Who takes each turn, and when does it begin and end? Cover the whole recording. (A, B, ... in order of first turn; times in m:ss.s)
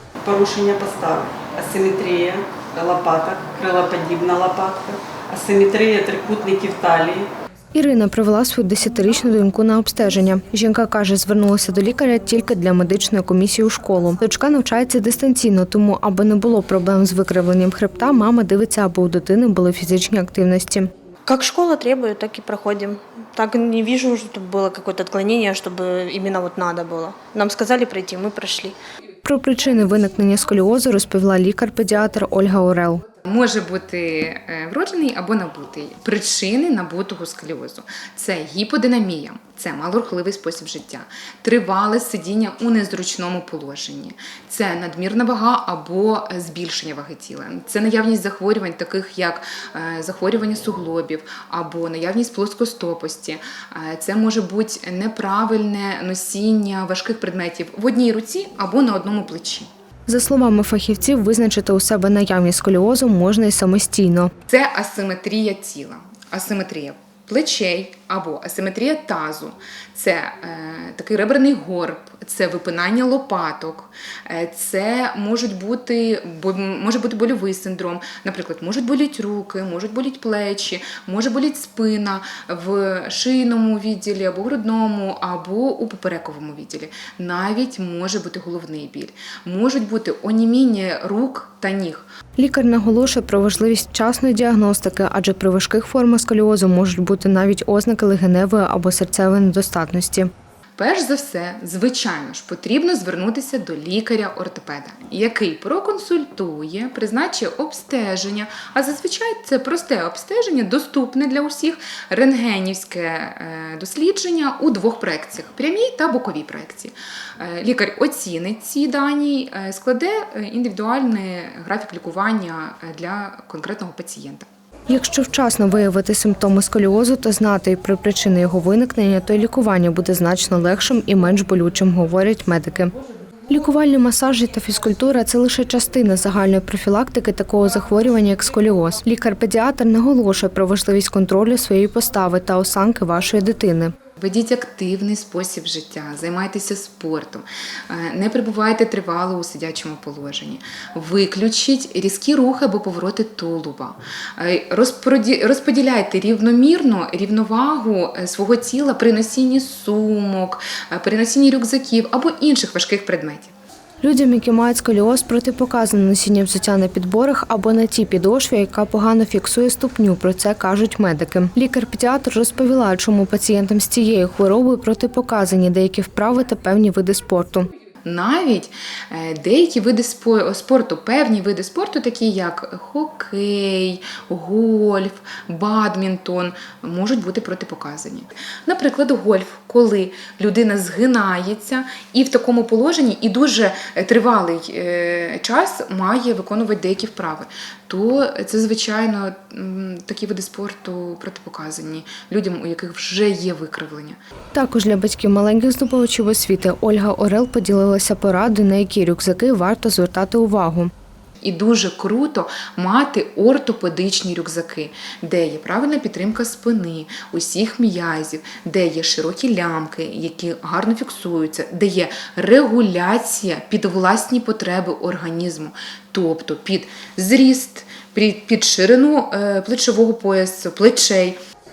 0:00.2-0:07.3 A
0:07.7-0:20.9 B
0:21.3-0:28.8 C
0:29.2-0:33.0 B
0:33.2-0:59.7 D
1:00.1-1:04.3 B
1:04.5-1:32.1 D
1:32.4-1:40.3 B
1:40.8-2:04.5 D
2:04.9-2:12.9 B
2:13.5-2:23.9 B
2:24.2-2:43.5 D
2:44.0-2:57.7 B
2:58.0-3:24.2 D
3:24.5-3:30.9 B
3:31.4-3:51.4 D